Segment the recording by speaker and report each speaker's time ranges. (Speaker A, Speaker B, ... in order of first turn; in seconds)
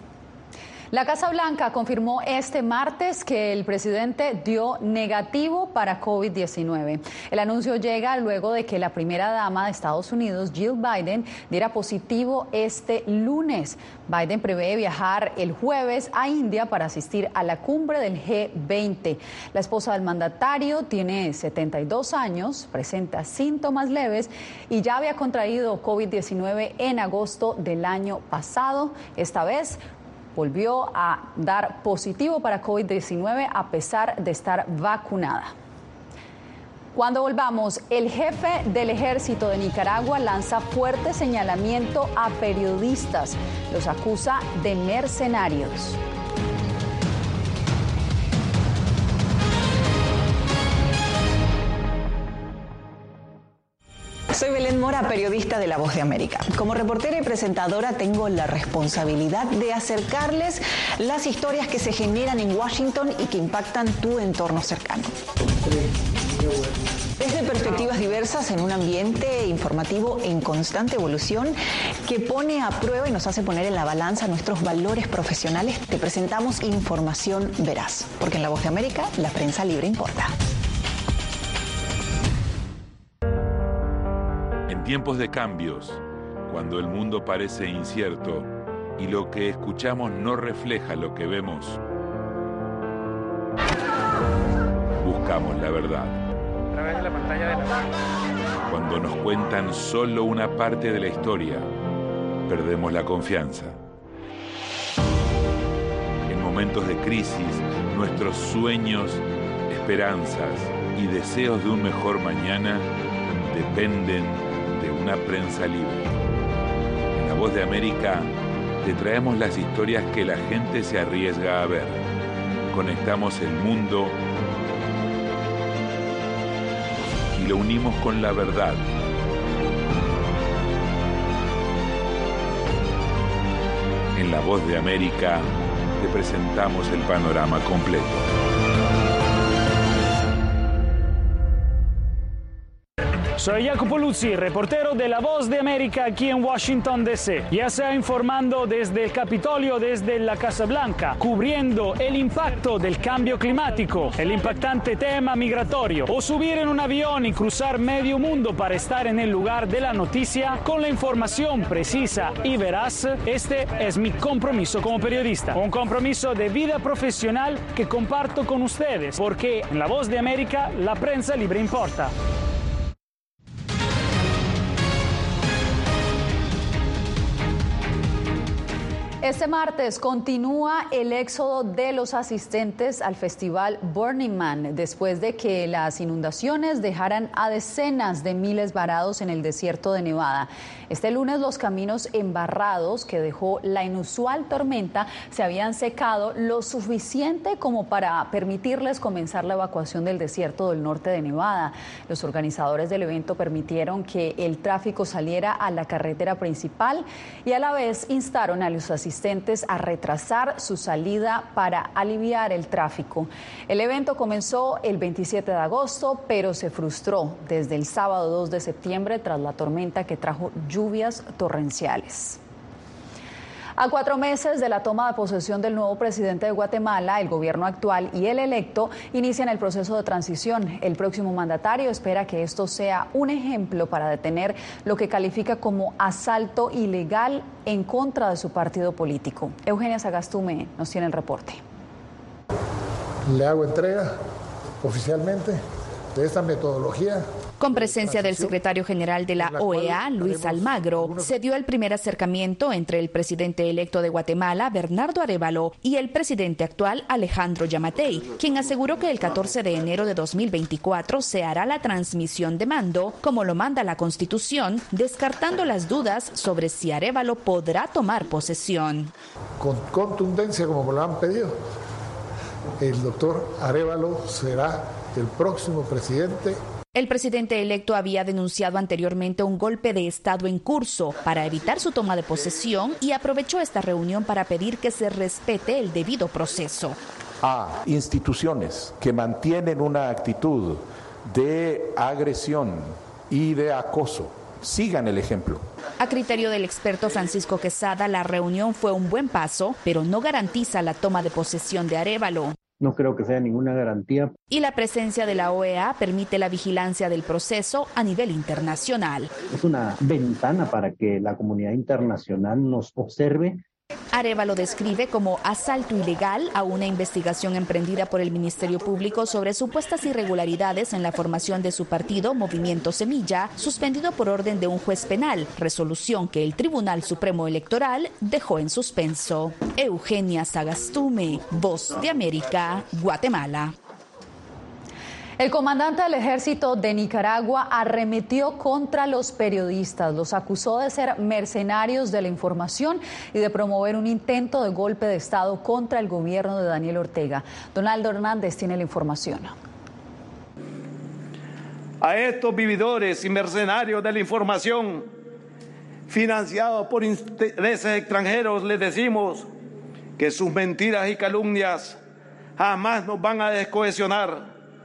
Speaker A: 0.9-29.8, 30.3-35.5, 36.9-46.0, 179.2-222.4, 223.8-241.6, 335.4-349.5
Speaker B: 54.3-65.1, 67.2-80.3
Speaker C: 84.7-91.8, 95.0-96.2, 98.7-101.7, 102.5-103.8, 106.3-116.1, 117.1-122.0, 122.7-124.2, 127.3-128.8, 134.1-138.2
Speaker D: 143.4-172.1
Speaker E: 243.2-244.1, 244.8-245.6, 246.1-247.2, 249.3-251.4, 269.6-271.5, 272.8-276.6, 352.0-355.1, 356.1-359.4, 360.2-362.0, 362.6-364.5
Speaker F: 247.6-269.1, 276.9-287.0, 296.0-302.5, 304.5-309.3, 314.1-333.7
Speaker G: 287.4-295.6
Speaker H: 302.8-304.3, 309.5-313.6